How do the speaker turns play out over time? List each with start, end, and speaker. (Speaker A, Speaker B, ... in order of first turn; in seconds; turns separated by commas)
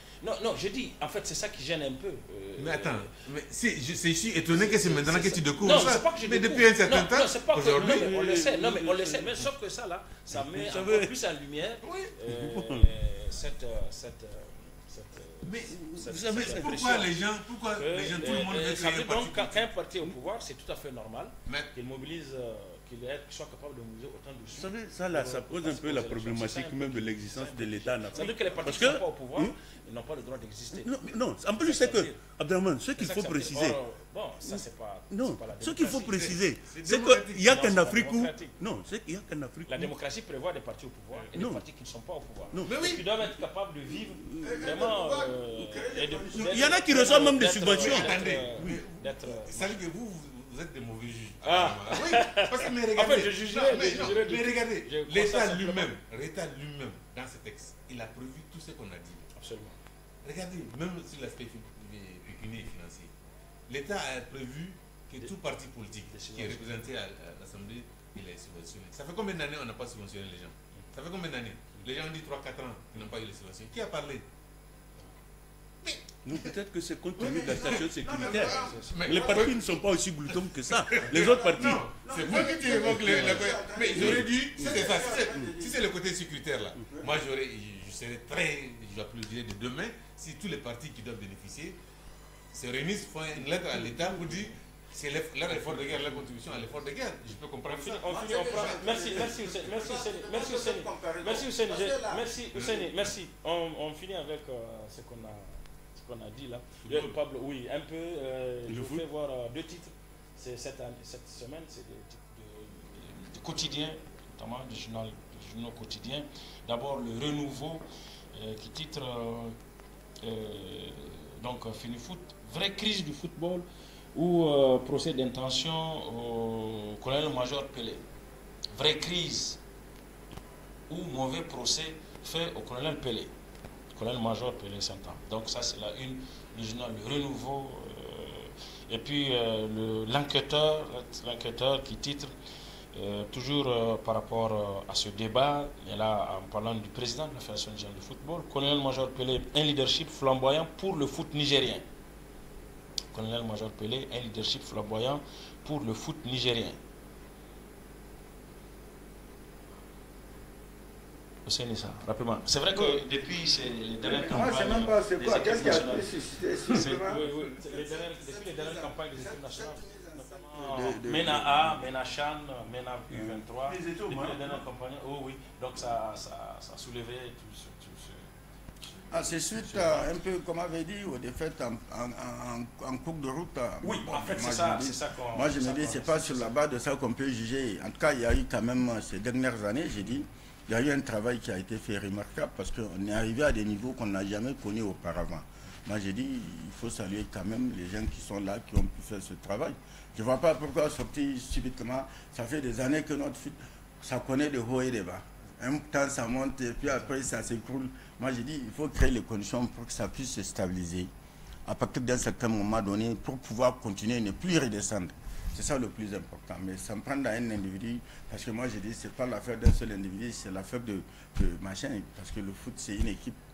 Speaker A: 0.2-3.2, Speaker B: 2.6-8.2, Speaker A: 4.5-17.1, Speaker C: 7.6-9.5, Speaker C: 10.3-11.2, Speaker B: 11.8-12.2, Speaker C: 12.2-12.9, Speaker B: 15.4-19.7, Speaker C: 15.7-17.1, Speaker A: 17.7-31.0, Speaker B: 21.5-21.7, Speaker C: 24.6-29.6, Speaker C: 30.7-33.8, Speaker A: 31.6-32.2, Speaker A: 33.0-36.4, Speaker C: 34.5-40.0, Speaker B: 36.0-38.1, Speaker A: 37.5-38.6, Speaker A: 39.7-49.7, Speaker C: 41.3-41.6, Speaker C: 42.5-42.8, Speaker B: 42.6-43.0, Speaker C: 44.2-44.9, Speaker D: 44.4-47.2, Speaker C: 46.3-48.8, Speaker B: 47.7-59.3, Speaker A: 51.4-56.0, Speaker A: 59.4-59.8, Speaker B: 60.2-63.2, Speaker B: 63.7-74.3, Speaker A: 66.1-66.8, Speaker B: 75.8-76.6, Speaker C: 76.2-85.5, Speaker D: 77.2-79.6, Speaker B: 77.2-91.8, Speaker D: 80.9-85.8, Speaker B: 92.5-99.6, Speaker C: 93.9-94.3, Speaker A: 97.7-119.6, Speaker D: 98.0-102.3, Speaker B: 102.5-103.1, Speaker B: 106.8-107.1, Speaker C: 108.7-109.0, Speaker A: 120.2-128.1, Speaker A: 128.7-129.6, Speaker A: 130.9-133.3, Speaker A: 133.9-142.3, Speaker A: 142.9-151.9, Speaker A: 153.1-156.8, Speaker A: 161.5-178.3, Speaker D: 162.7-163.0, Speaker D: 164.0-171.8, Speaker C: 173.2-174.6, Speaker A: 178.8-180.1, Speaker D: 179.1-211.1, Speaker A: 183.8-186.6, Speaker D: 211.7-223.4